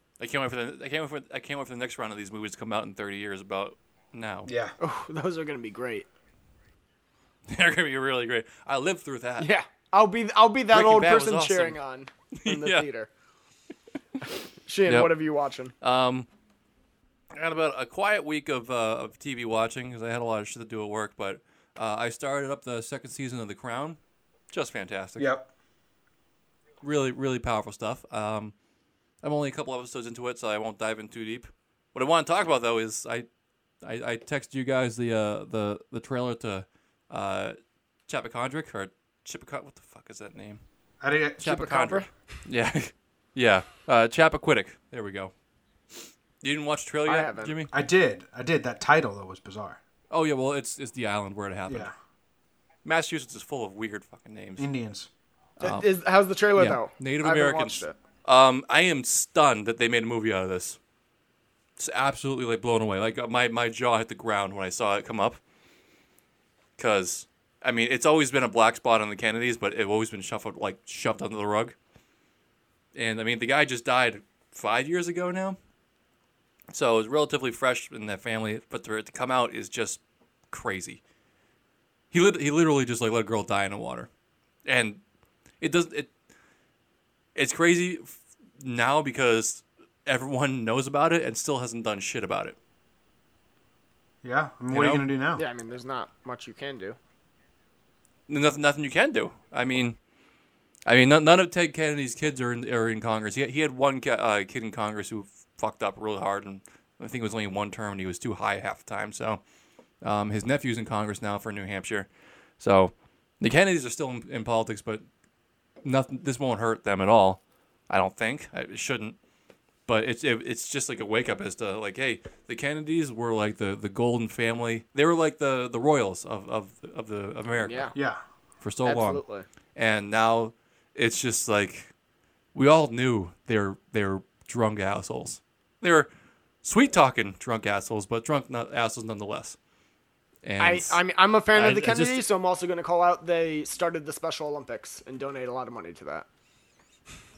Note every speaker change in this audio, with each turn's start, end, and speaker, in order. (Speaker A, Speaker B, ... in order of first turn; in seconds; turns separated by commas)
Speaker A: 0.2-4.5, Speaker B: 4.5-4.7, Speaker C: 4.8-6.0, Speaker A: 7.5-9.5, Speaker C: 9.4-13.1, Speaker A: 10.7-11.8, Speaker A: 12.4-12.8, Speaker C: 14.6-15.7, Speaker A: 14.9-15.1, Speaker A: 15.8-16.3, Speaker A: 17.3-24.0, Speaker A: 24.5-25.3, Speaker B: 25.2-25.5, Speaker A: 26.8-28.5, Speaker A: 29.2-33.3, Speaker A: 33.8-40.6, Speaker B: 41.0-41.4, Speaker A: 41.4-45.3, Speaker C: 41.4-42.2, Speaker A: 46.4-47.7, Speaker C: 47.0-47.5, Speaker B: 47.7-49.8, Speaker A: 50.1-51.9, Speaker B: 51.7-51.9, Speaker A: 52.8-54.7, Speaker B: 54.6-55.1, Speaker A: 55.6-55.9, Speaker C: 55.6-57.9, Speaker A: 56.5-60.8, Speaker A: 61.8-65.4, Speaker A: 66.8-71.7, Speaker A: 72.9-75.6, Speaker A: 76.7-81.0, Speaker A: 82.1-84.1, Speaker A: 84.7-85.0, Speaker A: 85.6-86.1, Speaker A: 87.3-92.6, Speaker B: 94.2-95.4, Speaker A: 94.7-95.0, Speaker C: 95.3-97.0, Speaker A: 98.3-100.0, Speaker A: 100.8-109.4, Speaker A: 110.0-115.0, Speaker A: 115.8-119.2, Speaker A: 119.9-127.9, Speaker C: 127.6-127.9, Speaker B: 127.9-128.2, Speaker A: 128.6-129.2, Speaker C: 128.8-129.4, Speaker A: 129.8-131.9, Speaker A: 132.5-136.1, Speaker A: 136.6-139.6, Speaker A: 140.4-141.0, Speaker C: 140.6-146.2, Speaker A: 141.5-142.2